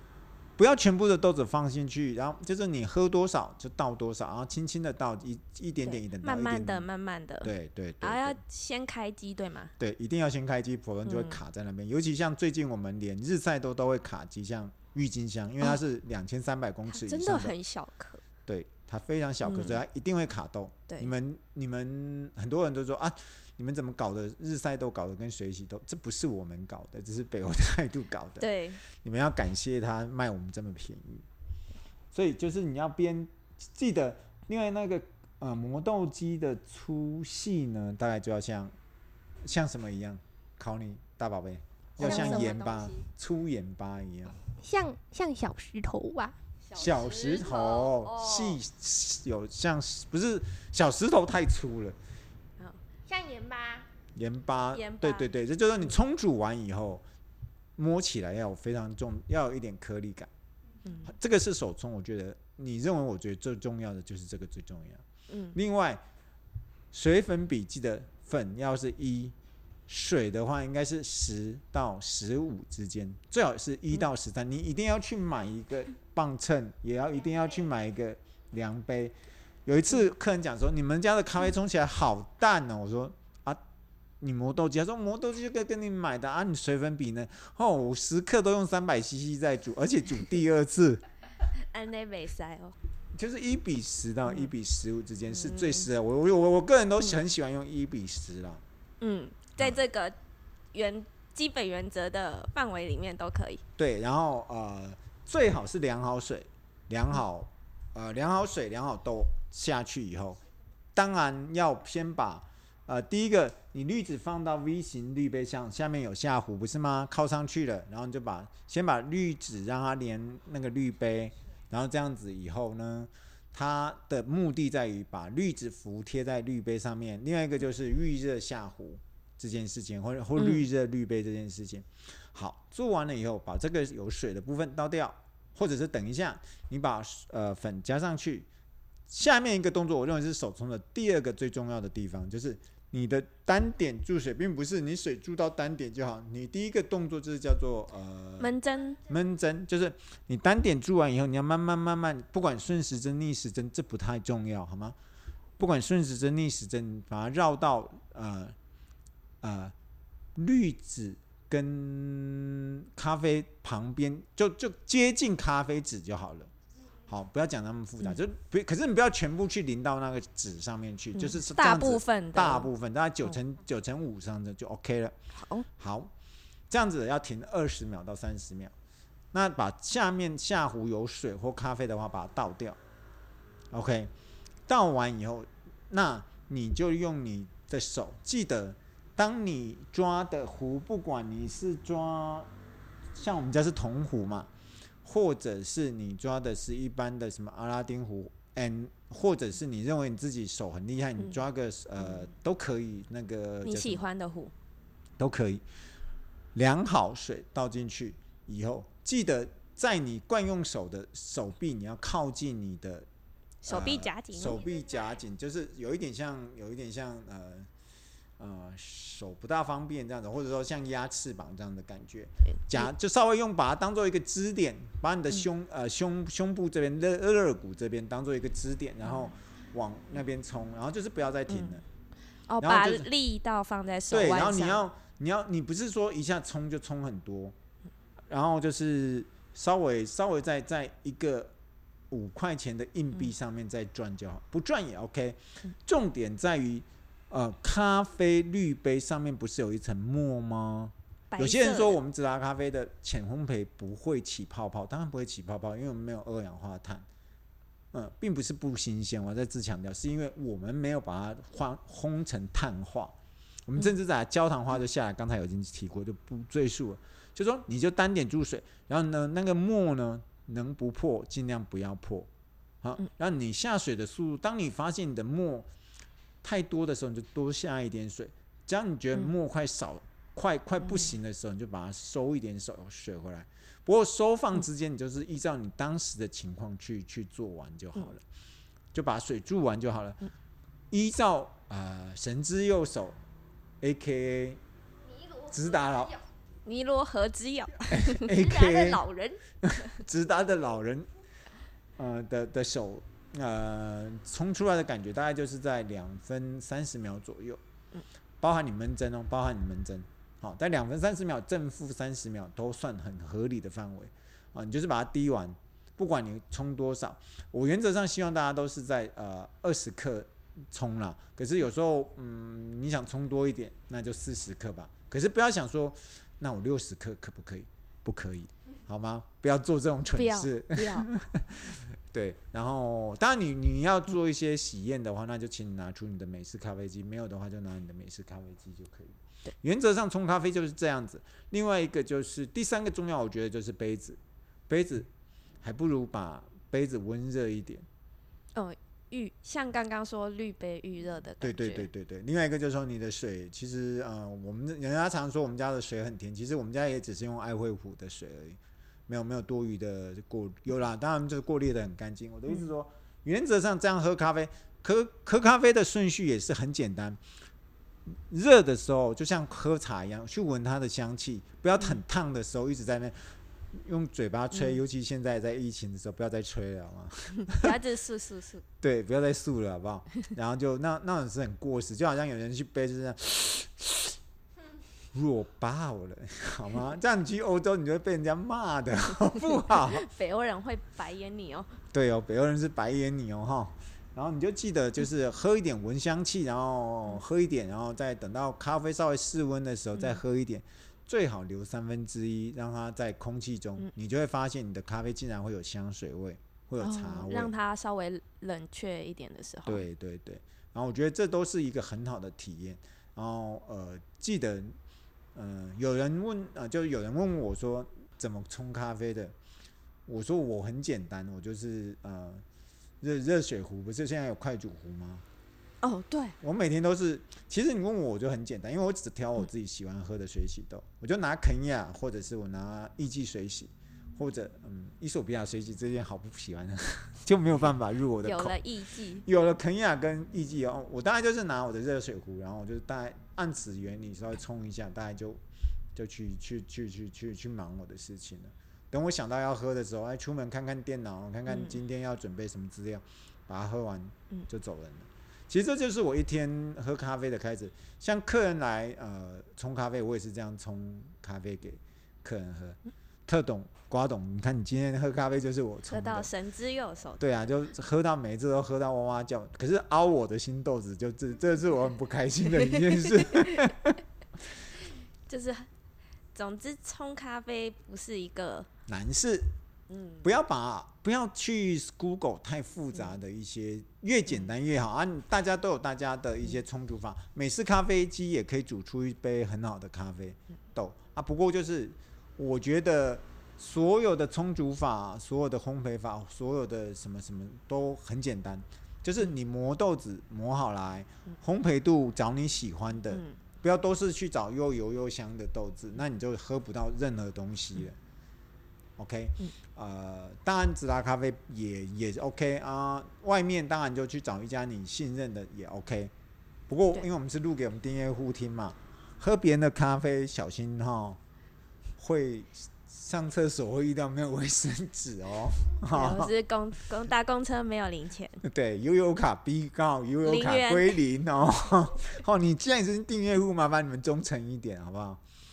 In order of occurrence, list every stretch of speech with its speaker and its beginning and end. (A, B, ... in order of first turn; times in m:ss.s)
0:00.6-0:06.9 A
0:05.8-0:09.7 B
0:07.4-0:08.4 A
0:09.8-0:17.5 A
0:11.0-0:11.4 B
0:16.9-0:18.2 B
0:18.4-0:31.2 A
0:19.4-0:19.8 B
0:28.4-0:28.8 B
0:32.1-0:38.7 A
0:39.4-0:44.4 A
0:42.0-0:42.9 B
0:42.0-0:42.6 C
0:44.6-0:46.4 C
0:46.7-0:52.0 A
0:47.0-0:48.6 C
0:53.0-0:53.9 C
0:54.1-0:57.0 A
0:54.7-0:55.3 B
0:57.8-1:00.3 A
1:00.8-1:01.1 B
1:01.0-1:06.0 A
1:05.3-1:05.6 B
1:06.9-1:09.3 A
1:09.9-1:19.1 A
1:19.6-1:23.6 A
1:24.2-1:31.0 A
1:31.6-1:32.7 B
1:33.1-1:38.6 A
1:35.3-1:35.9 B
1:39.0-1:40.2 B
1:40.7-1:43.6 B
1:43.8-1:50.4 A
1:50.9-2:18.5 A
2:10.4-2:10.6 B
2:19.1-2:28.5 A
2:28.4-2:29.0 B
2:29.0-2:35.0 A
2:35.6-2:38.6 A
2:39.4-2:39.7 A
2:40.3-2:46.5 A
2:47.1-2:55.1 A
2:51.1-2:52.7 B
2:55.3-2:55.7 B
2:55.8-2:56.1 A
2:56.7-2:58.7 A
2:59.3-3:02.8 A
3:03.7-3:04.1 A
3:04.7-3:12.5 A
3:13.1-3:14.5 A
3:15.0-3:24.0 A
3:23.6-3:24.5 B
3:25.2-3:25.6 A
3:26.5-3:33.1 A
3:33.6-3:34.6 B
3:33.7-3:37.7 A
3:38.4-3:51.8 A
3:42.4-3:42.9 B
3:51.5-3:51.8 B
3:52.5-3:54.8 B
3:52.6-3:53.1 A
3:54.1-3:57.5 A
3:58.3-4:01.5 A
4:02.1-4:17.1 A
4:11.3-4:12.0 B
4:17.9-4:23.1 A
4:23.7-4:32.3 A
4:32.8-4:35.7 A
4:36.4-4:48.2 A
4:48.9-4:50.2 A
4:50.9-4:53.2 A
4:53.8-4:54.6 A
4:55.4-4:56.2 A
4:56.6-4:58.3 B
4:57.9-4:59.0 A
4:58.4-4:59.4 C
4:59.6-5:01.1 A
5:02.0-5:07.6 A
5:08.4-5:45.1 A
5:30.1-5:31.1 B
5:45.6-5:47.8 A
5:48.5-5:51.9 B
5:51.4-6:07.2 A
6:08.1-6:17.7 A
6:14.5-6:14.8 B
6:17.5-6:18.6 B
6:18.8-6:24.2 A
6:25.1-6:30.1 A
6:29.7-6:31.8 B
6:31.9-6:47.5 A
6:39.9-6:40.2 B
6:46.8-6:49.8 B
6:49.6-6:54.8 A
6:55.3-6:59.3 A
7:00.0-7:02.4 A
7:03.0-7:05.2 A
7:05.8-7:06.4 B
7:06.4-7:18.6 A
7:18.2-7:19.2 B
7:19.2-7:25.4 A
7:25.9-7:46.3 A
7:31.5-7:31.8 B
7:45.9-7:47.2 B
7:47.2-7:54.0 A
7:55.3-7:55.7 B
7:56.3-7:58.7 B
7:58.9-7:59.5 A
7:59.9-8:00.2 B
8:00.2-8:28.0 A
8:23.1-8:23.4 B
8:29.0-8:36.1 A
8:36.7-8:41.2 A
8:42.0-8:46.3 A
8:45.9-8:48.4 B
8:48.4-8:55.2 A
8:50.2-8:51.0 B